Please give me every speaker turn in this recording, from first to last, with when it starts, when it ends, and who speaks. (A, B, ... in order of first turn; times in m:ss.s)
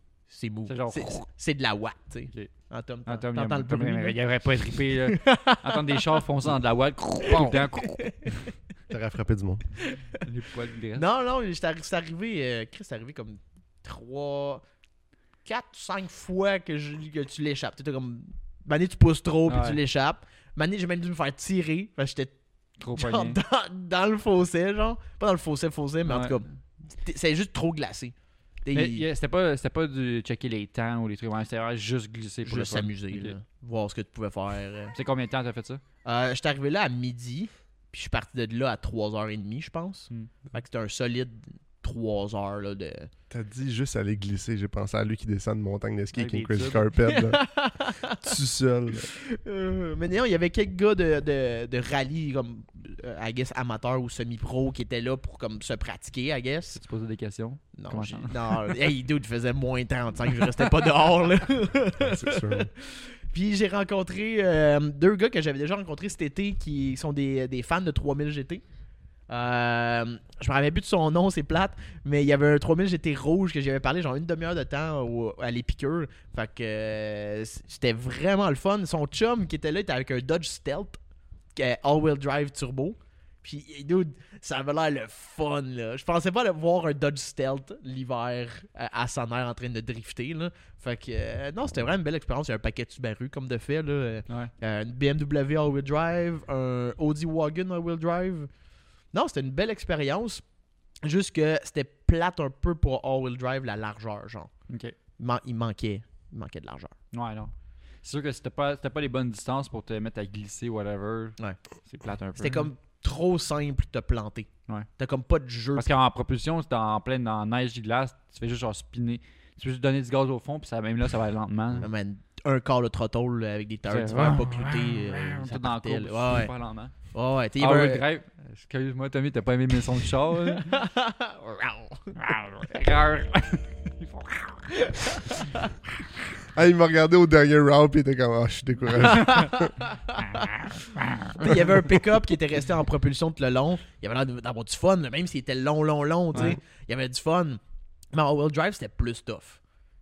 0:00.3-0:04.2 A
0:00.7-0:01.2 B
0:03.0-0:08.4 B
0:04.7-0:06.3 A
0:07.2-0:08.3 A
0:08.9-0:09.6 C
0:09.8-0:10.2 A
0:10.1-0:11.0 B
0:10.9-0:14.6 A
0:15.4-0:22.3 A
0:19.5-0:19.8 B
0:22.8-0:23.4 B
0:22.9-0:29.0 A
0:26.1-0:26.4 B
0:28.7-0:33.3 B
0:32.4-0:34.9 A
0:34.9-0:35.8 B
0:36.0-0:43.1 A
0:43.3-0:47.4 C
0:46.1-0:46.8 B
0:47.0-0:48.3 A
0:48.2-0:49.1 C
0:49.0-0:56.8 A
0:56.8-0:58.7 B
0:57.8-1:08.6 A
1:02.0-1:02.7 C
1:09.3-1:21.0 A
1:21.5-1:38.5 A
1:39.1-1:40.4 A
1:41.0-1:44.5 A
1:44.7-1:44.9 B
1:45.2-1:46.9 A
1:47.1-1:47.5 B
1:48.0-1:52.7 B
1:52.4-1:55.9 A
1:55.8-2:01.9 B
2:01.8-2:06.5 A
2:03.9-2:06.9 B
2:07.1-2:08.0 A
2:07.6-2:10.7 B
2:10.4-2:12.1 A
2:12.1-2:15.2 B
2:14.8-2:15.7 A
2:16.5-2:19.7 C
2:19.0-2:20.5 A
2:20.3-2:21.5 B
2:21.4-2:27.6 A
2:28.1-2:29.6 A